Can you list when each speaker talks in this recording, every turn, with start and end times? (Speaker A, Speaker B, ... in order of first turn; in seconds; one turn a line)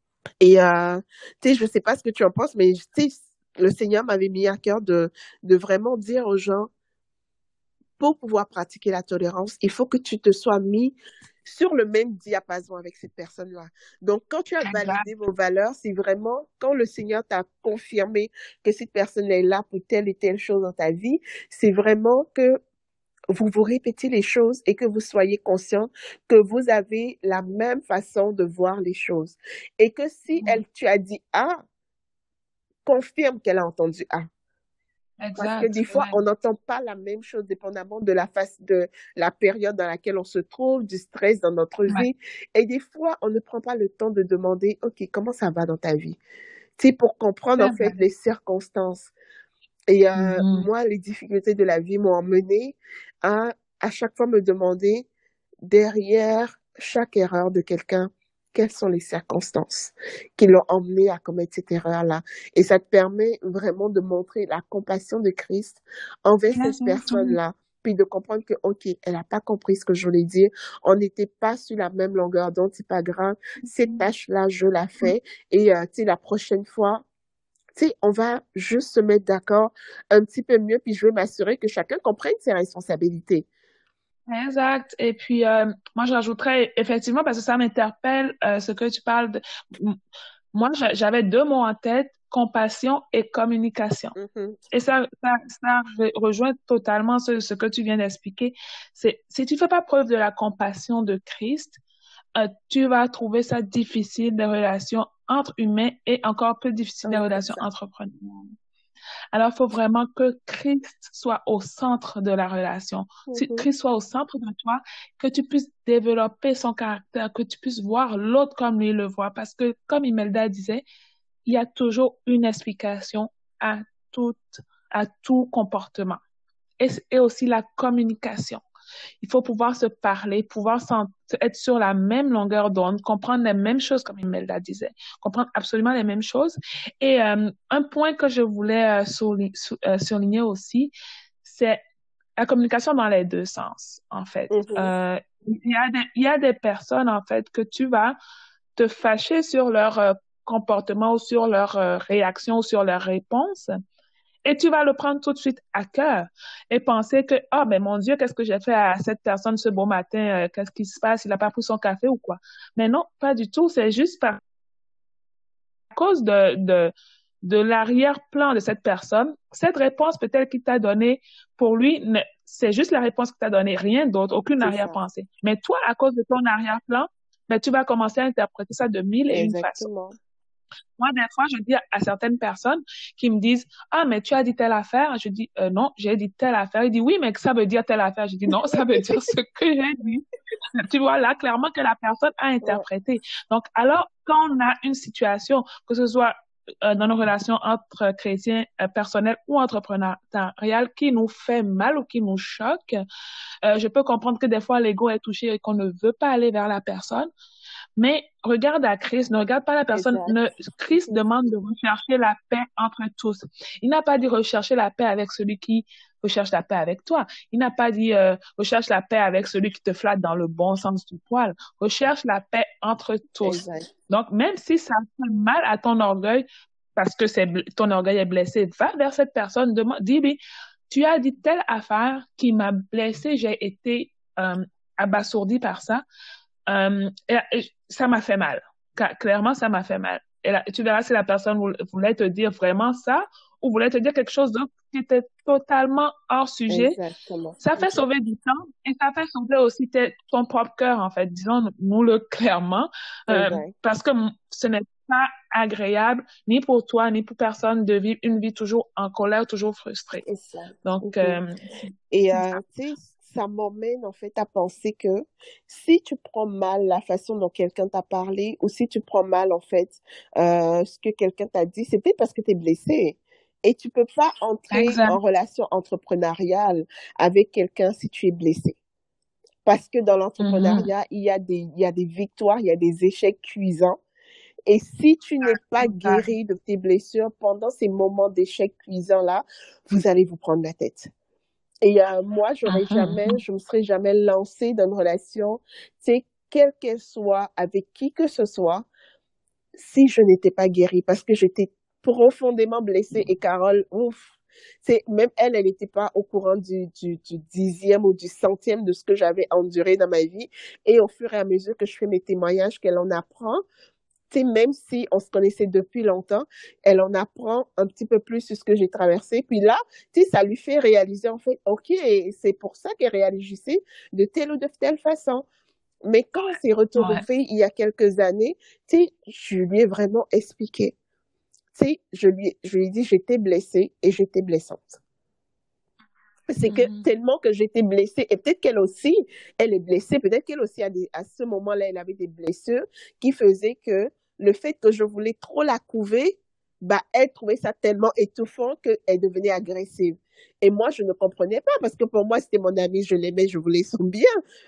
Speaker A: 0.4-6.7
Speaker A: 8.0-10.9
Speaker A: 11.4-22.6
Speaker B: 14.7-15.1
Speaker A: 23.3-31.6
Speaker A: 32.9-34.3
Speaker B: 35.2-36.2
Speaker A: 35.4-46.2
Speaker A: 46.8-49.1
Speaker B: 47.6-48.0
Speaker A: 49.9-55.1
Speaker B: 50.2-50.7
Speaker A: 55.7-77.0
Speaker B: 66.5-67.4
Speaker B: 73.6-74.0
Speaker A: 77.8-83.5
Speaker B: 84.3-90.0
Speaker B: 90.5-94.2
Speaker A: 94.2-94.6
Speaker B: 94.7-101.8
Speaker B: 102.3-108.5
Speaker A: 107.0-107.7
Speaker B: 109.3-120.8
Speaker A: 113.3-113.7
Speaker B: 121.5-126.2
Speaker B: 126.8-128.6
Speaker B: 129.2-140.9
Speaker B: 141.4-141.8
Speaker B: 142.4-148.2
Speaker A: 144.5-144.9
Speaker B: 148.8-153.7
Speaker B: 154.4-164.4
Speaker B: 165.9-166.9
Speaker B: 167.4-179.9
Speaker A: 174.6-175.0
Speaker A: 179.3-180.1
Speaker B: 181.0-203.0
Speaker B: 203.7-207.3
Speaker B: 208.0-226.4
Speaker A: 209.9-211.5
Speaker A: 223.4-223.9
Speaker B: 227.0-230.4
Speaker B: 230.9-236.0
Speaker B: 236.7-247.0
Speaker A: 246.7-248.0
Speaker B: 247.6-260.2
Speaker A: 253.3-253.7
Speaker A: 260.2-261.4
Speaker B: 260.9-262.6
Speaker A: 262.1-278.8
Speaker B: 274.7-275.2
Speaker A: 279.6-284.0
Speaker B: 280.4-280.9
Speaker A: 284.7-291.1
Speaker B: 285.8-286.3
Speaker A: 291.8-298.9
Speaker B: 292.7-293.4
Speaker A: 299.8-304.2
Speaker A: 304.8-313.6
Speaker A: 314.3-325.4
Speaker A: 326.1-330.9
Speaker B: 326.9-327.2
Speaker A: 331.7-335.0
Speaker A: 336.5-354.4
Speaker B: 336.7-337.1